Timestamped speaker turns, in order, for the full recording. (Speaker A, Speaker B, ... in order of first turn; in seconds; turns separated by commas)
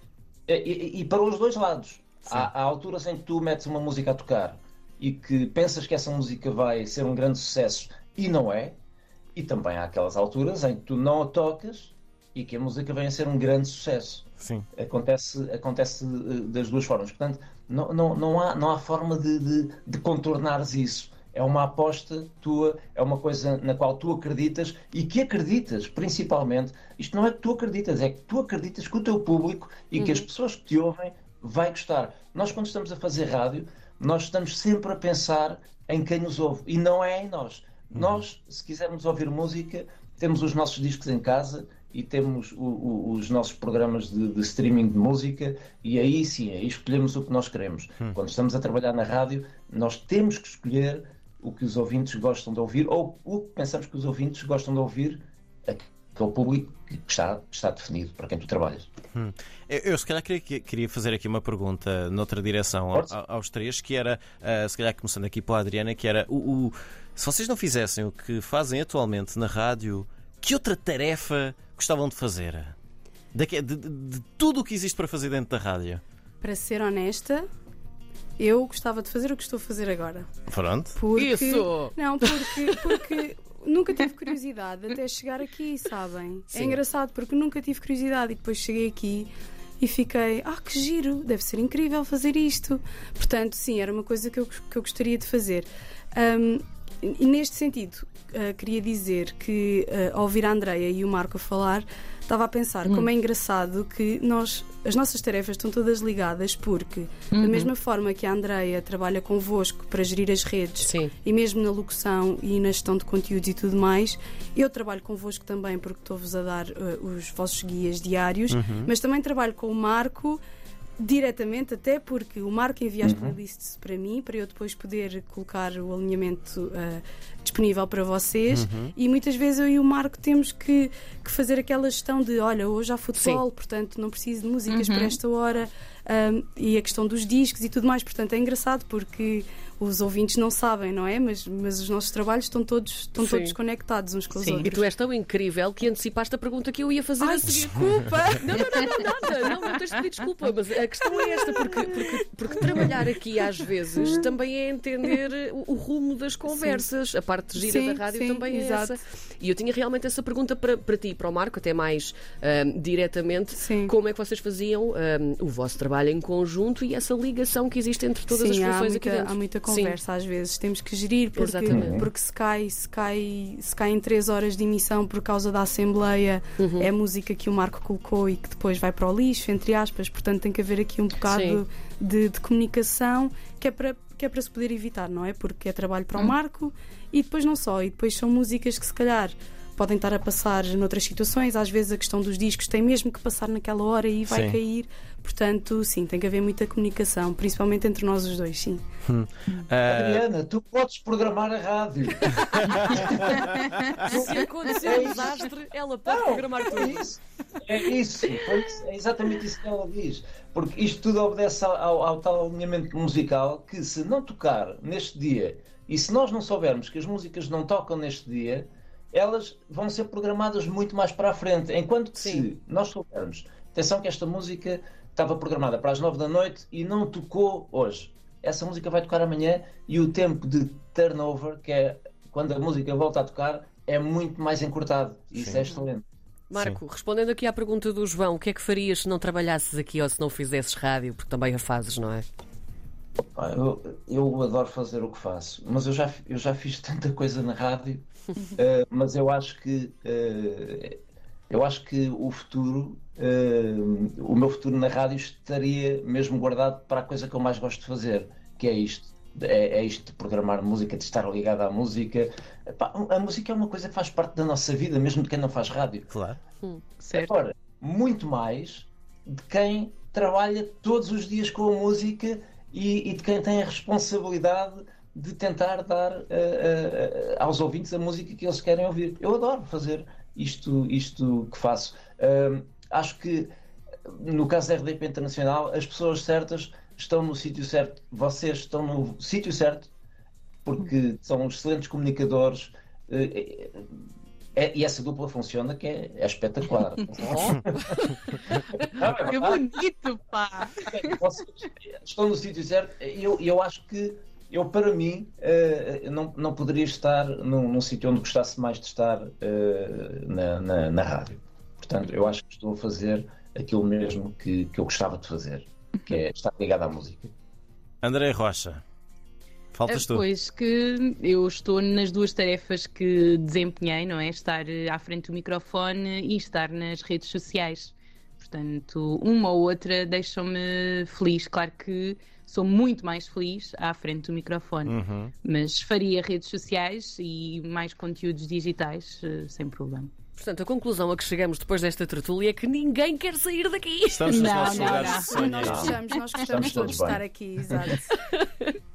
Speaker A: 0.5-8.8, Speaker A: 9.3-14.2, Speaker B: 14.4-14.7, Speaker A: 14.8-58.9, Speaker C: 29.9-30.2, Speaker B: 37.9-38.2, Speaker B: 59.1-72.7, Speaker B: 73.3-76.0, Speaker D: 76.4-77.4, Speaker D: 78.4-80.3, Speaker B: 80.5-81.0, Speaker D: 80.9-120.4, Speaker C: 81.1-83.0, Speaker E: 107.3-107.7, Speaker C: 110.8-111.1, Speaker B: 118.5-118.9, Speaker D: 121.0-144.7, Speaker A: 123.0-123.4, Speaker B: 128.5-128.9, Speaker C: 133.2-133.4, Speaker E: 134.7-135.2, Speaker C: 143.2-143.6, Speaker E: 144.3-144.7, Speaker C: 144.6-147.7, Speaker D: 147.2-148.9, Speaker C: 148.4-170.0, Speaker D: 156.5-156.8, Speaker D: 157.6-159.0, Speaker D: 163.5-163.9, Speaker D: 168.3-198.8, Speaker C: 171.3-172.0, Speaker A: 171.7-172.1, Speaker C: 176.6-176.9, Speaker C: 181.3-181.6, Speaker B: 194.3-194.6, Speaker B: 199.1-200.2, Speaker A: 199.9-202.3, Speaker B: 202.4-203.6, Speaker A: 204.0-205.5, Speaker C: 204.0-207.1, Speaker A: 206.1-236.0, Speaker C: 222.2-222.5, Speaker C: 236.5-242.3, Speaker B: 236.6-236.8, Speaker A: 243.3-251.0, Speaker A: 251.5-266.1, Speaker B: 266.1-266.4, Speaker E: 267.0-267.3, Speaker A: 267.1-283.5, Speaker A: 284.1-289.9, Speaker A: 290.6-293.9, Speaker A: 294.6-298.0, Speaker A: 298.9-299.6, Speaker E: 299.0-301.1, Speaker A: 300.9-317.3, Speaker B: 318.0-318.8, Speaker B: 319.7-320.3, Speaker E: 319.9-340.1, Speaker B: 334.8-335.3, Speaker C: 340.4-345.2, Speaker B: 344.1-346.0, Speaker E: 344.3-346.6, Speaker D: 345.4-348.2, Speaker A: 345.6-347.2